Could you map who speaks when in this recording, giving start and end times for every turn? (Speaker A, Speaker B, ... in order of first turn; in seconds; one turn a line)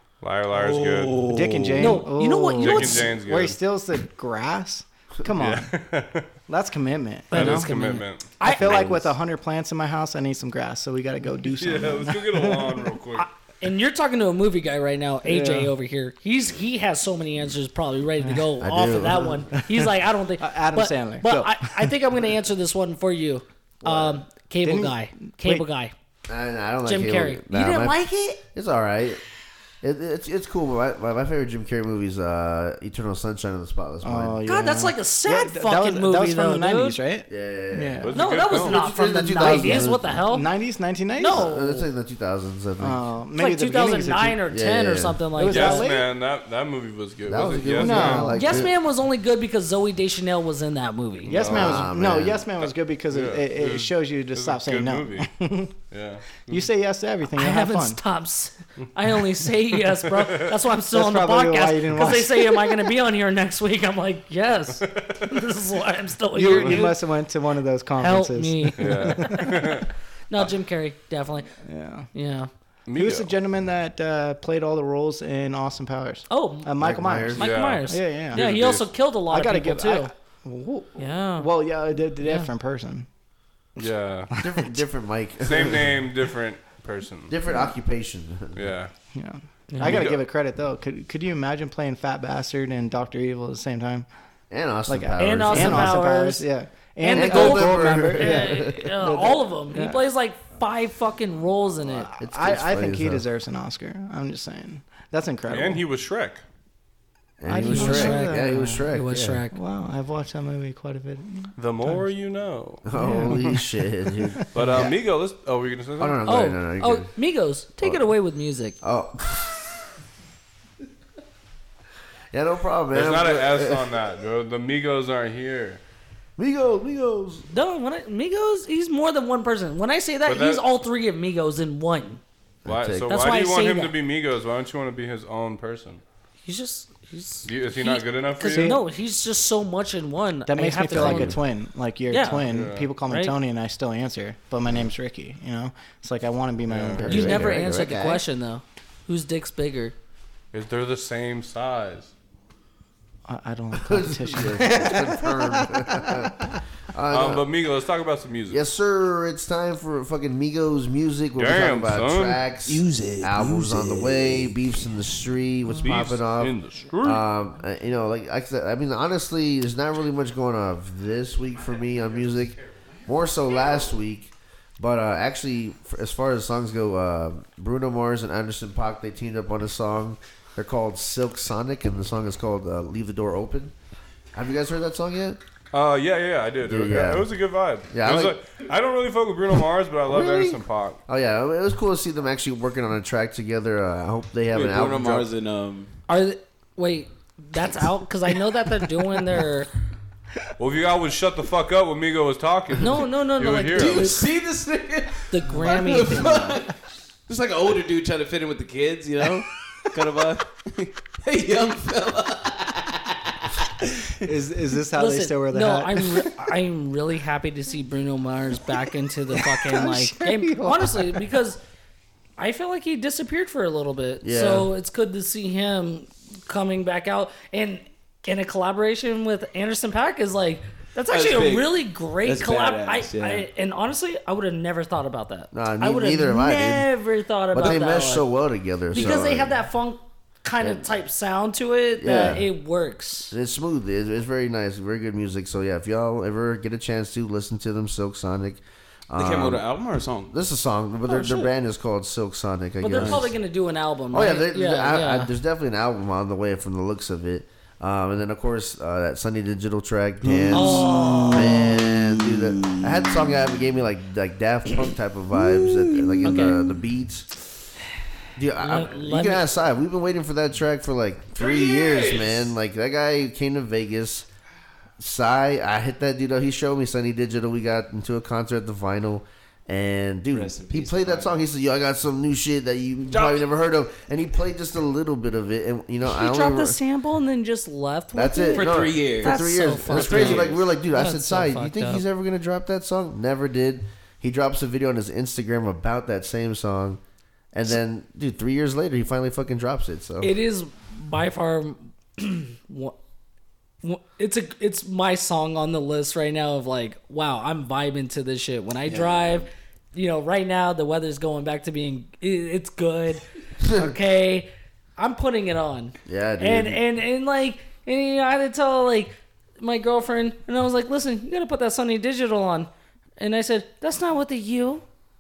Speaker A: 0.2-1.3
Speaker B: 0.5-2.0
Speaker C: 1.3-5.7
Speaker D: 1.8-3.1
Speaker A: 2.6-3.6
Speaker A: 5.3-6.3
Speaker C: 6.5-7.7
Speaker D: 7.3-8.9
Speaker A: 7.3-8.4
Speaker C: 8.4-12.9
Speaker E: 8.6-9.1
Speaker A: 11.6-13.3
Speaker D: 13.2-25.9
Speaker C: 15.2-15.7
Speaker E: 18.6-19.5
Speaker C: 20.4-21.9
Speaker E: 23.8-24.2
Speaker C: 24.6-25.6
Speaker E: 26.3-29.2
Speaker D: 26.9-28.4
Speaker E: 29.8-34.4
Speaker C: 34.0-38.2
Speaker D: 34.5-37.0
Speaker E: 37.3-40.2
Speaker A: 38.0-38.8
Speaker D: 38.1-40.5
Speaker C: 39.2-41.5
Speaker D: 41.1-41.9
Speaker E: 41.3-43.0
Speaker C: 42.8-44.4
Speaker D: 43.4-45.9
Speaker E: 44.5-45.2
Speaker C: 45.4-46.1
Speaker A: 45.5-48.3
Speaker E: 47.3-48.7
Speaker C: 47.8-48.6
Speaker D: 48.3-51.3
Speaker C: 51.3-55.8
Speaker A: 51.3-51.9
Speaker E: 51.3-52.5
Speaker A: 53.1-55.3
Speaker A: 55.9-56.7
Speaker C: 56.5-58.0
Speaker D: 57.3-67.0
Speaker A: 60.0-60.5
Speaker C: 60.9-62.9
Speaker A: 64.8-65.5
Speaker C: 66.3-69.5
Speaker A: 66.5-66.8
Speaker D: 68.0-69.7
Speaker A: 68.8-69.9
Speaker D: 70.3-71.5
Speaker C: 71.6-72.1
Speaker D: 72.1-72.5
Speaker A: 72.9-73.3
Speaker C: 73.0-78.5
Speaker D: 76.3-76.7
Speaker E: 76.8-77.5
Speaker D: 77.3-80.1
Speaker A: 77.4-78.9
Speaker C: 79.3-83.1
Speaker D: 81.0-81.5
Speaker D: 82.2-82.5
Speaker A: 83.8-84.3
Speaker C: 84.3-84.8
Speaker E: 84.4-86.0
Speaker A: 85.4-87.3
Speaker E: 87.3-88.7
Speaker A: 88.5-88.9
Speaker C: 89.1-94.1
Speaker D: 89.7-90.1
Speaker A: 89.8-90.2
Speaker E: 94.5-96.0
Speaker C: 94.9-100.0
Speaker D: 95.2-96.5
Speaker D: 97.0-102.1
Speaker E: 97.1-98.8
Speaker C: 101.8-105.8
Speaker E: 102.2-103.2
Speaker A: 105.5-106.4
Speaker E: 107.4-109.4
Speaker C: 107.5-108.9
Speaker D: 107.6-109.6
Speaker C: 109.5-112.0
Speaker A: 111.6-113.4
Speaker E: 112.9-114.9
Speaker C: 113.0-113.6
Speaker C: 114.4-114.8
Speaker A: 114.5-116.2
Speaker E: 116.0-117.1
Speaker D: 116.3-118.8
Speaker E: 118.8-119.6
Speaker E: 122.3-124.0
Speaker A: 122.9-125.8
Speaker E: 126.4-127.5
Speaker D: 127.5-132.2
Speaker A: 130.2-130.7
Speaker E: 132.7-133.2
Speaker A: 132.7-136.0
Speaker D: 133.1-134.0
Speaker D: 136.4-141.4
Speaker A: 137.4-138.8
Speaker C: 138.5-138.8
Speaker C: 140.5-147.6
Speaker E: 140.9-141.4
Speaker D: 142.1-142.5
Speaker A: 142.3-142.9
Speaker D: 143.1-143.3
Speaker A: 146.7-147.1
Speaker E: 146.9-148.2
Speaker D: 147.1-149.9
Speaker A: 150.5-152.1
Speaker C: 153.3-156.6
Speaker E: 153.8-157.5
Speaker A: 157.1-158.6
Speaker E: 158.5-183.7
Speaker A: 161.4-162.4
Speaker B: 162.7-164.6
Speaker A: 165.8-167.2
Speaker B: 171.5-173.1
Speaker E: 184.3-185.4
Speaker A: 185.7-191.0
Speaker E: 186.7-187.3
Speaker E: 187.9-188.4
Speaker E: 190.1-195.3
Speaker B: 194.5-196.0
Speaker D: 196.1-199.7
Speaker A: 200.6-204.2
Speaker D: 202.8-204.3
Speaker B: 203.7-206.8
Speaker D: 205.3-206.6
Speaker B: 207.3-214.2
Speaker C: 214.2-216.3
Speaker D: 215.0-221.6
Speaker C: 219.6-220.9
Speaker D: 222.4-238.3
Speaker E: 224.2-224.7
Speaker B: 231.1-233.5
Speaker E: 235.5-236.9
Speaker E: 237.5-239.6
Speaker D: 238.9-243.3
Speaker E: 240.6-240.9
Speaker E: 242.0-242.5
Speaker E: 243.3-249.7
Speaker B: 249.2-250.3
Speaker E: 250.3-253.3
Speaker D: 251.1-251.5
Speaker D: 252.8-255.3
Speaker B: 252.9-253.3
Speaker E: 254.1-267.3
Speaker B: 260.2-263.5
Speaker D: 260.5-261.7
Speaker B: 265.3-266.8
Speaker D: 266.2-266.6
Speaker E: 268.4-274.3
Speaker D: 268.6-269.5
Speaker B: 271.4-272.5
Speaker E: 275.0-286.8
Speaker B: 280.3-281.4
Speaker B: 283.1-283.5
Speaker D: 286.1-292.0
Speaker E: 288.1-297.0
Speaker B: 288.5-290.6
Speaker E: 297.5-300.3
Speaker D: 300.2-302.9
Speaker D: 303.8-324.8
Speaker B: 308.9-309.4
Speaker E: 313.6-313.9
Speaker E: 316.1-316.8